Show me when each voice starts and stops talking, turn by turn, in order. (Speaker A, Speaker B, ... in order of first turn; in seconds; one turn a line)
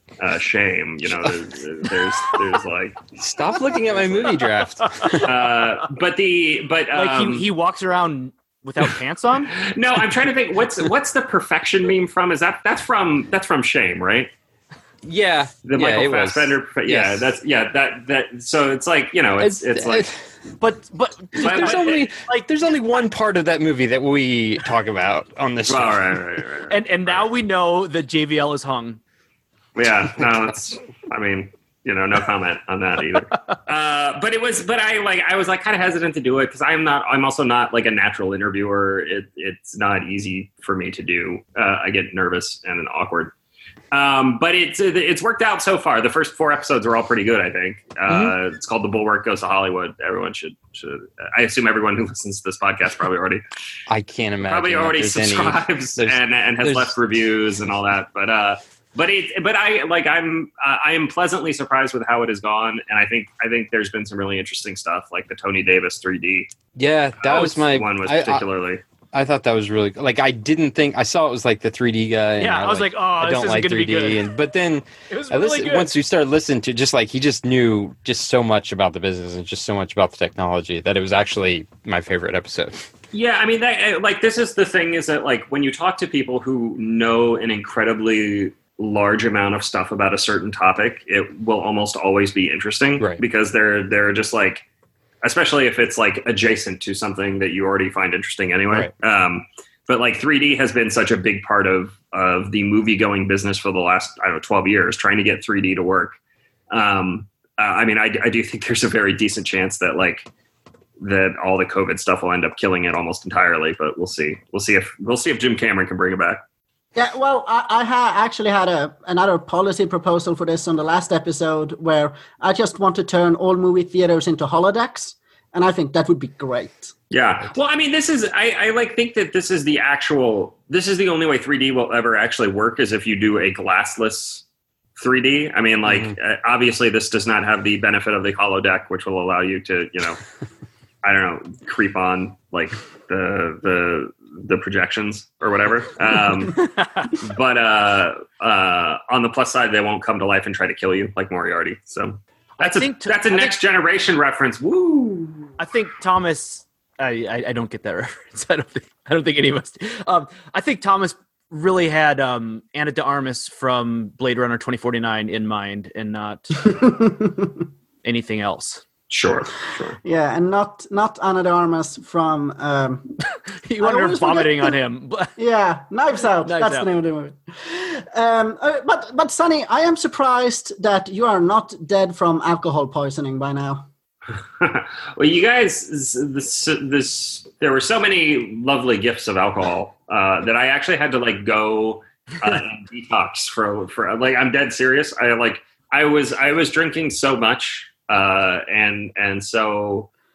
Speaker A: 0.2-3.0
Speaker B: 3.2-5.3
Speaker A: 5.0-7.5
Speaker C: 6.9-9.5
Speaker A: 9.5-14.3
Speaker B: 15.0-17.3
Speaker A: 15.6-20.1
Speaker B: 19.4-20.2
Speaker C: 20.6-22.5
Speaker B: 21.3-26.1
Speaker A: 21.4-22.1
Speaker A: 25.7-27.1
Speaker C: 26.7-29.0
Speaker A: 29.7-43.3
Speaker A: 43.9-53.4
Speaker B: 48.1-48.3
Speaker B: 53.9-56.9
Speaker A: 54.4-66.5
Speaker B: 66.7-68.5
Speaker A: 67.2-68.8
Speaker B: 69.1-82.8
Speaker C: 72.4-74.2
Speaker C: 75.1-75.9
Speaker A: 83.1-94.6
Speaker A: 95.2-106.2
Speaker A: 106.7-110.3
Speaker A: 111.0-116.4
Speaker D: 117.0-126.9
Speaker A: 127.1-134.4
Speaker A: 135.0-140.2
Speaker A: 141.0-155.5
Speaker C: 146.8-147.1
Speaker C: 152.6-153.6
Speaker C: 155.6-166.7
Speaker D: 166.7-167.7
Speaker C: 168.0-168.8
Speaker A: 169.1-170.0
Speaker D: 170.0-173.2
Speaker C: 173.6-175.4
Speaker D: 173.8-174.7
Speaker D: 175.4-183.8
Speaker C: 176.4-176.9
Speaker A: 184.6-200.1